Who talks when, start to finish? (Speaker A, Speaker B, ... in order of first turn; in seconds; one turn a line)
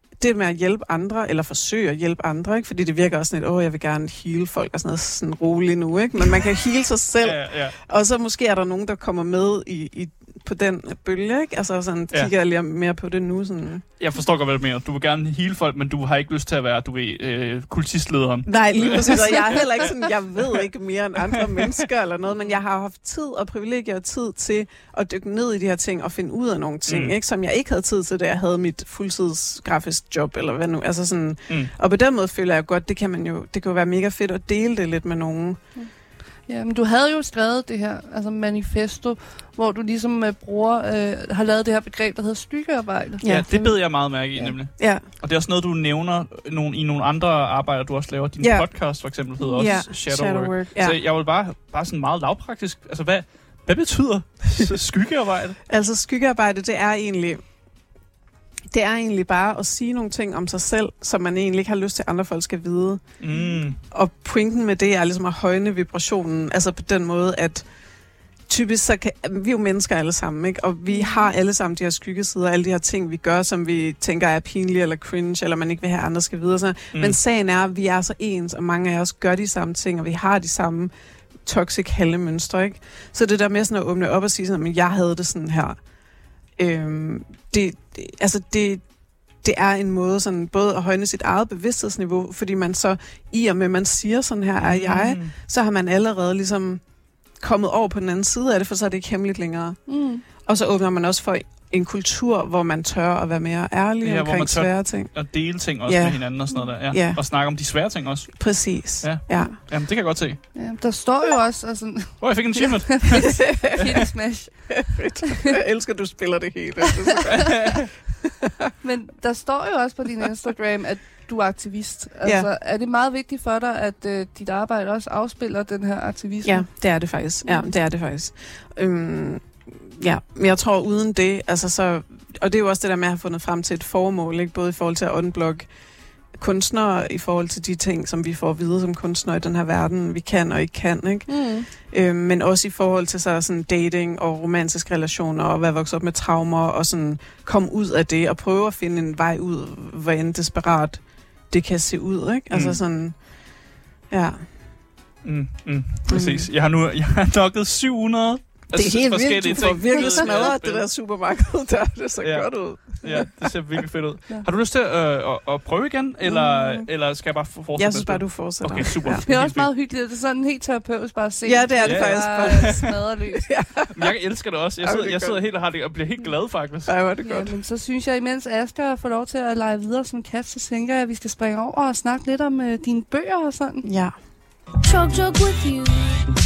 Speaker A: 0.2-13.8
Speaker B: 7.2-7.8
Speaker B: 14.0-19.9
Speaker A: 18.5-35.6
Speaker B: 21.3-21.7
Speaker B: 26.9-27.1
Speaker C: 36.5-43.2
Speaker A: 43.2-45.1
Speaker B: 43.2-55.6
Speaker A: 48.4-51.0
Speaker C: 49.4-49.8
Speaker A: 55.7-57.5
Speaker A: 58.7-67.7
Speaker B: 63.2-63.8
Speaker C: 63.3-63.6
Speaker A: 68.5-80.9
Speaker C: 70.9-71.3
Speaker A: 81.4-85.8
Speaker A: 86.6-88.9
Speaker A: 89.4-96.8
Speaker B: 94.6-95.3
Speaker A: 97.4-107.2
Speaker C: 99.9-100.2
Speaker B: 104.0-110.5
Speaker A: 108.4-109.6
Speaker C: 110.5-115.3
Speaker B: 112.2-113.9
Speaker A: 113.4-113.8
Speaker A: 114.7-117.9
Speaker B: 117.4-117.8
Speaker C: 118.8-127.7
Speaker A: 122.2-122.5
Speaker A: 126.4-135.7
Speaker A: 136.3-153.6
Speaker C: 141.3-141.7
Speaker B: 152.5-152.8
Speaker A: 154.1-154.5
Speaker B: 155.2-160.9
Speaker A: 156.1-156.5
Speaker A: 158.7-163.5
Speaker C: 159.7-160.5
Speaker B: 162.2-169.7
Speaker A: 166.2-166.9
Speaker A: 167.8-169.2
Speaker C: 169.2-173.5
Speaker A: 171.4-174.1
Speaker B: 171.8-172.9
Speaker B: 173.9-176.9
Speaker A: 174.8-175.4
Speaker A: 176.8-177.6
Speaker C: 177.2-183.9
Speaker A: 183.8-184.1
Speaker C: 184.8-186.2